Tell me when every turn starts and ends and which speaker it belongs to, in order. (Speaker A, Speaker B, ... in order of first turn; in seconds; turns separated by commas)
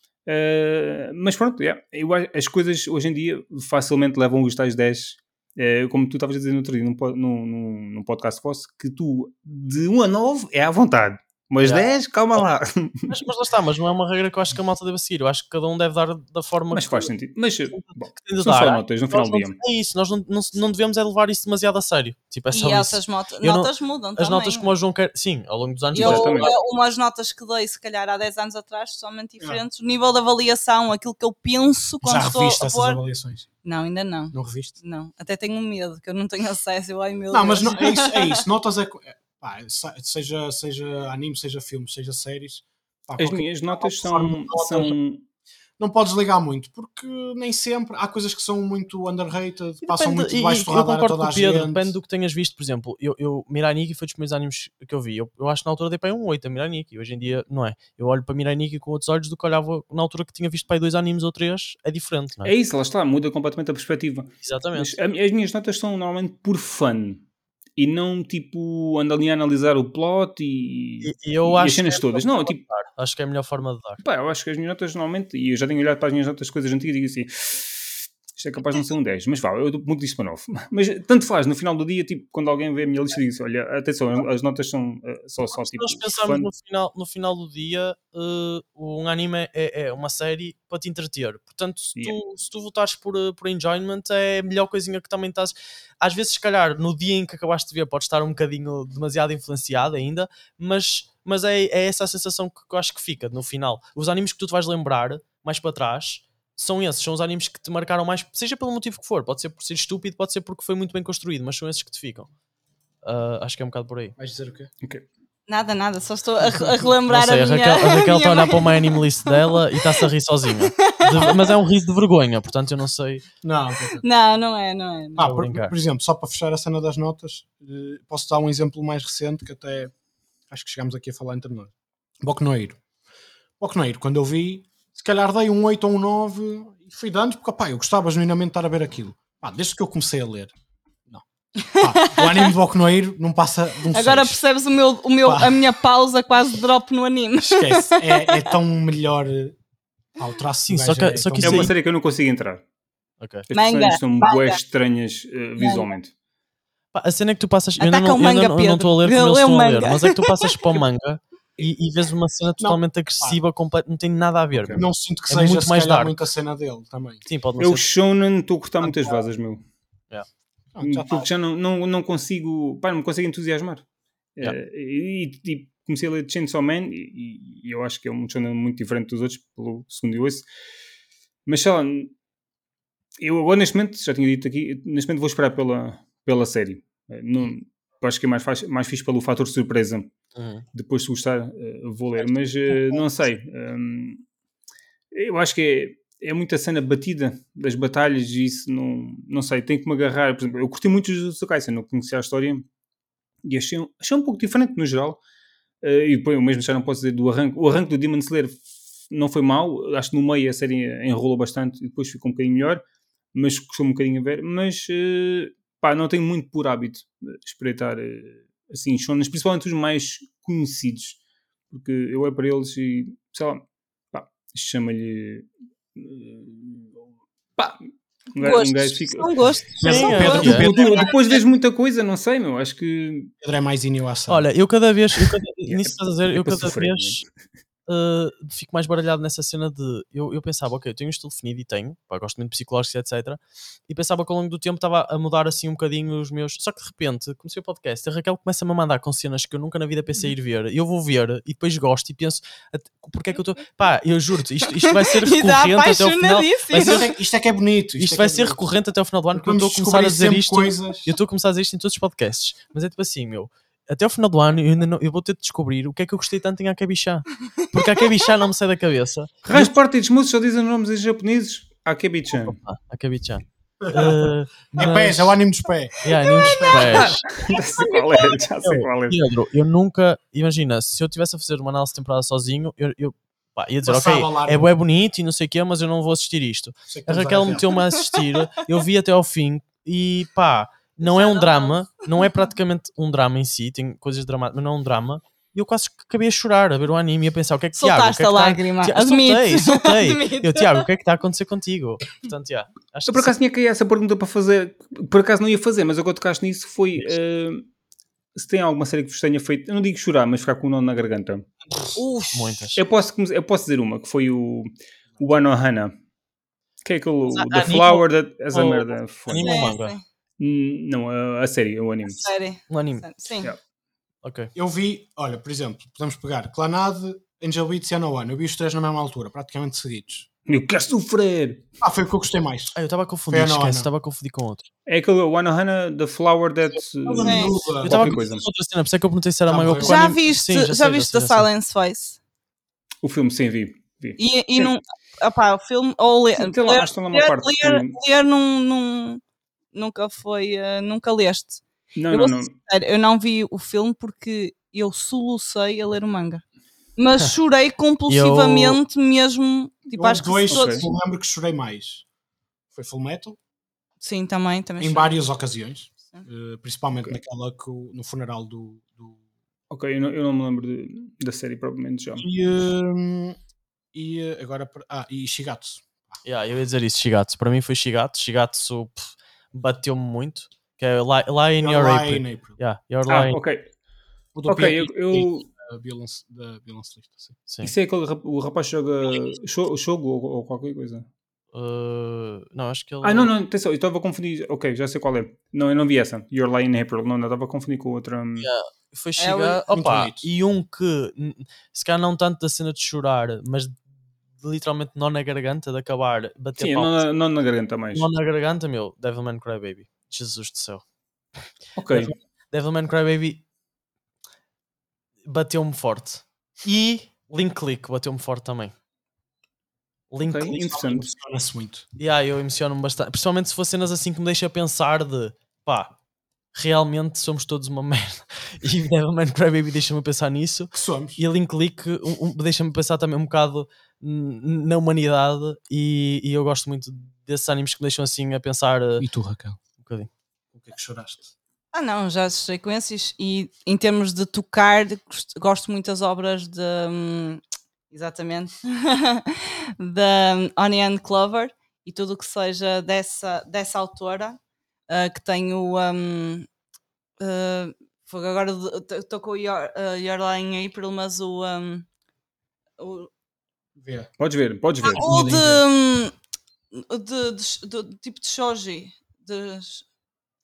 Speaker A: 0.2-13.1, Speaker B: 11.6-12.4, Speaker B: 13.1-17.1, Speaker A: 16.7-19.6, Speaker B: 17.7-26.5, Speaker C: 22.5-24.7, Speaker A: 25.9-26.5, Speaker C: 25.9-33.0, Speaker D: 32.0-33.4, Speaker C: 33.6-38.4, Speaker D: 34.3-34.7, Speaker D: 37.3-44.9, Speaker A: 43.2-45.2, Speaker D: 45.8-51.9, Speaker B: 49.8-62.5, Speaker A: 62.4-67.2, Speaker B: 64.4-65.0, Speaker A: 67.8-72.6, Speaker B: 71.0-74.0, Speaker A: 74.0-86.5, Speaker B: 85.5-112.3, Speaker B: 113.0-114.1, Speaker D: 114.2-114.7, Speaker C: 115.5-121.5, Speaker B: 117.1-123.2, Speaker D: 123.4-124.0, Speaker C: 124.0-125.3, Speaker D: 125.2-129.9, Speaker B: 125.2-125.7, Speaker D: 130.5-132.8, Speaker D: 133.6-140.5, Speaker C: 141.7-142.5, Speaker D: 141.8-144.4, Speaker C: 143.9-148.5, Speaker D: 145.2-145.6, Speaker D: 147.4-149.6, Speaker D: 150.2-151.7, Speaker B: 150.6-151.7, Speaker A: 151.4-152.6, Speaker B: 153.2-153.5, Speaker A: 153.5-156.1, Speaker C: 153.5-154.6, Speaker C: 155.6-155.9, Speaker B: 156.9-166.2, Speaker C: 157.8-160.8, Speaker D: 162.6-163.4, Speaker A: 164.5-164.8, Speaker D: 164.7-167.2, Speaker B: 167.2-167.9, Speaker A: 167.6-169.6, Speaker D: 168.8-169.2, Speaker D: 170.7-171.3, Speaker A: 170.8-173.8, Speaker A: 174.4-180.4, Speaker A: 181.5-182.1, Speaker A: 183.2-190.1, Speaker B: 190.3-190.6, Speaker A: 190.7-194.2, Speaker A: 195.1-202.7, Speaker A: 203.4-205.2, Speaker A: 205.8-221.2, Speaker A: 221.7-226.9, Speaker A: 228.3-229.3, Speaker C: 228.4-231.3, Speaker D: 229.8-231.1, Speaker B: 229.8-230.7, Speaker A: 230.3-233.3, Speaker D: 233.4-234.4, Speaker B: 234.3-237.2, Speaker A: 235.6-237.2, Speaker B: 237.9-257.1, Speaker C: 254.7-257.1, Speaker D: 256.8-258.6, Speaker B: 258.0-269.7, Speaker D: 259.3-261.1, Speaker A: 269.4-272.6, Speaker B: 272.3-275.4, Speaker D: 273.8-277.1, Speaker B: 276.0-277.2, Speaker C: 276.1-278.4, Speaker A: 276.9-279.2, Speaker B: 278.6-303.3, Speaker D: 283.8-284.7, Speaker D: 286.9-287.7, Speaker C: 287.7-288.2, Speaker C: 291.0-292.3, Speaker C: 297.8-300.9, Speaker A: 303.1-307.6, Speaker A: 308.3-311.4, Speaker D: 311.6-312.0, Speaker C: 311.9-312.6, Speaker B: 312.3-312.8, Speaker A: 312.7-315.9, Speaker A: 316.8-319.6, Speaker B: 317.3-320.0, Speaker C: 319.4-320.0, Speaker A: 320.4-322.2, Speaker C: 322.0-323.5, Speaker B: 322.7-323.1, Speaker B: 324.2-324.5, Speaker D: 324.5-330.3, Speaker A: 330.5-331.6, Speaker D: 331.8-332.8, Speaker B: 332.7-334.7, Speaker D: 333.3-333.9, Speaker A: 334.9-338.4, Speaker D: 337.0-338.1, Speaker C: 337.2-337.5, Speaker B: 337.8-341.5, Speaker D: 339.5-340.0, Speaker C: 339.7-342.2, Speaker A: 343.0-344.7, Speaker C: 344.2-349.2, Speaker A: 346.4-348.0, Speaker C: 349.7-356.4, Speaker A: 351.9-352.5, Speaker C: 357.0-360.9, Speaker B: 358.1-358.8, Speaker D: 359.9-362.0, Speaker A: 360.5-360.8, Speaker D: 362.7-363.4, Speaker C: 364.0-365.2, Speaker D: 364.8-369.1, Speaker A: 369.7-372.2, Speaker D: 372.1-373.4, Speaker D: 373.9-376.2, Speaker B: 376.2-383.4, Speaker D: 381.6-382.6, Speaker A: 383.1-383.7, Speaker D: 384.3-387.4, Speaker A: 384.5-385.5, Speaker B: 387.5-387.7, Speaker A: 387.6-391.1, Speaker B: 391.5-393.3, Speaker A: 393.0-398.5, Speaker B: 398.4-403.8, Speaker C: 399.2-399.6, Speaker D: 399.7-400.3, Speaker B: 404.4-407.1, Speaker A: 406.6-408.1, Speaker B: 407.9-410.8, Speaker A: 411.8-412.1, Speaker B: 411.9-413.4, Speaker B: 415.2-418.7, Speaker B: 420.1-420.7, Speaker A: 420.2-421.1, Speaker D: 420.5-421.8, Speaker B: 422.0-425.9, Speaker B: 426.5-439.1, Speaker D: 430.7-431.2, Speaker D: 439.0-439.6, Speaker B: 439.8-440.1, Speaker D: 440.5-441.3, Speaker C: 441.7-456.5, Speaker C: 457.2-461.8, Speaker C: 462.8-463.1, Speaker D: 463.8-464.1, Speaker A: 464.2-465.1, Speaker C: 464.8-466.1, Speaker D: 464.9-465.6, Speaker C: 466.7-469.8